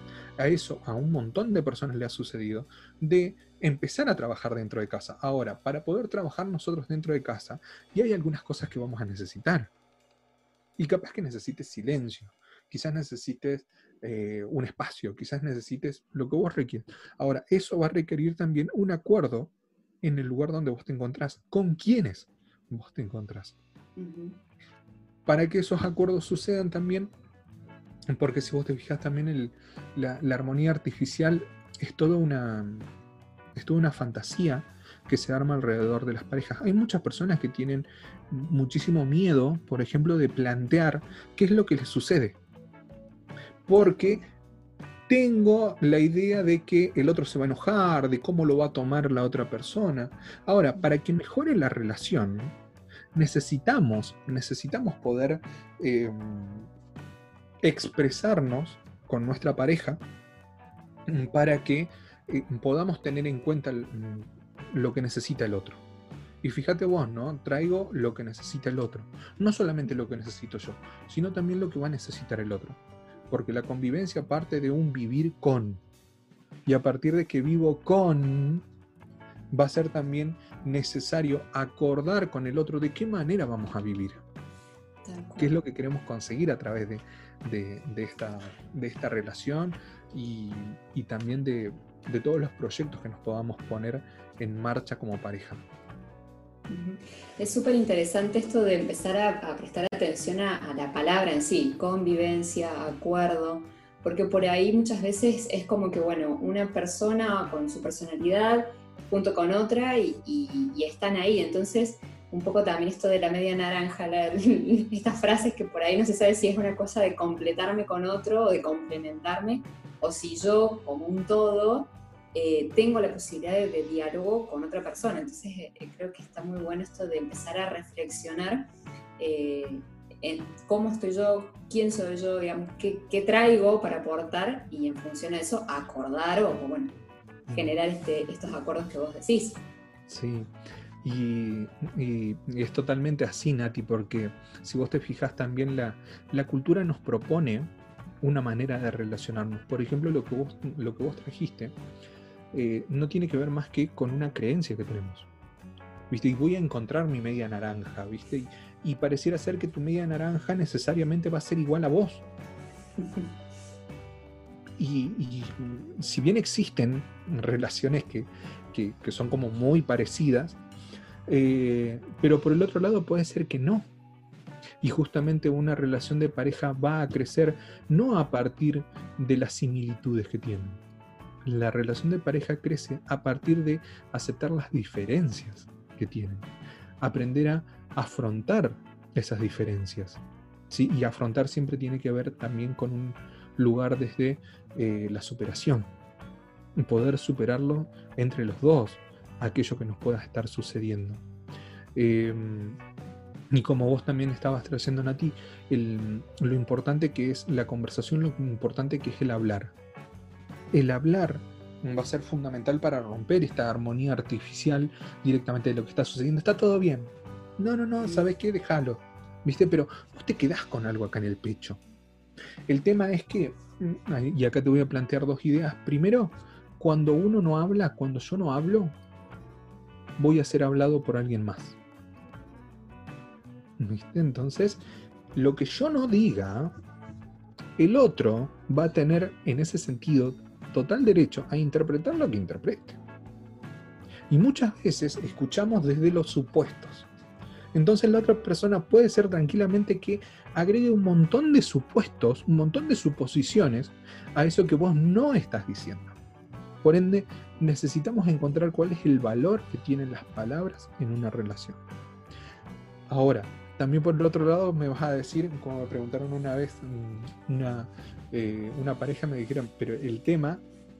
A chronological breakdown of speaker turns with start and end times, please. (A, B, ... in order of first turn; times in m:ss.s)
0:00.4-0:09.7 A
0:10.8-0:23.6 A
0:24.0-0:24.4 B
0:25.2-0:27.1 A
0:28.1-0:32.9 A
0:33.5-0:42.4 A
0:43.7-0:44.2 A
0:43.8-0:44.3 B
0:45.1-0:52.6 A
0:53.1-0:56.7 A
0:57.6-1:00.0 A
1:01.1-1:05.8 A
1:06.4-1:15.8 A
1:16.6-1:18.6 A
1:19.5-1:24.2 A
1:25.0-1:25.6 B
1:25.4-1:35.6 A
1:36.7-2:17.0 B
2:17.5-2:17.7 A
2:17.5-2:19.6 B
2:20.1-2:31.8 A
2:32.5-2:35.3 A
2:36.1-2:42.2 A
2:44.8-2:50.6 A
2:51.3-2:53.8 A
2:54.8-3:00.8 A
3:01.4-3:06.5 A
3:07.0-3:15.9 A
3:16.8-3:21.2 A
3:21.9-3:22.8 A
3:23.5-3:29.7 A
3:30.7-3:41.8 A
3:42.7-3:49.0 A
3:50.2-3:51.8 A
3:53.8-3:54.8 A
3:55.3-3:56.7 A
3:57.8-4:03.0 A
4:04.3-4:07.1 A
4:07.7-4:16.2 A
4:16.8-4:21.8 A
4:23.1-4:30.6 A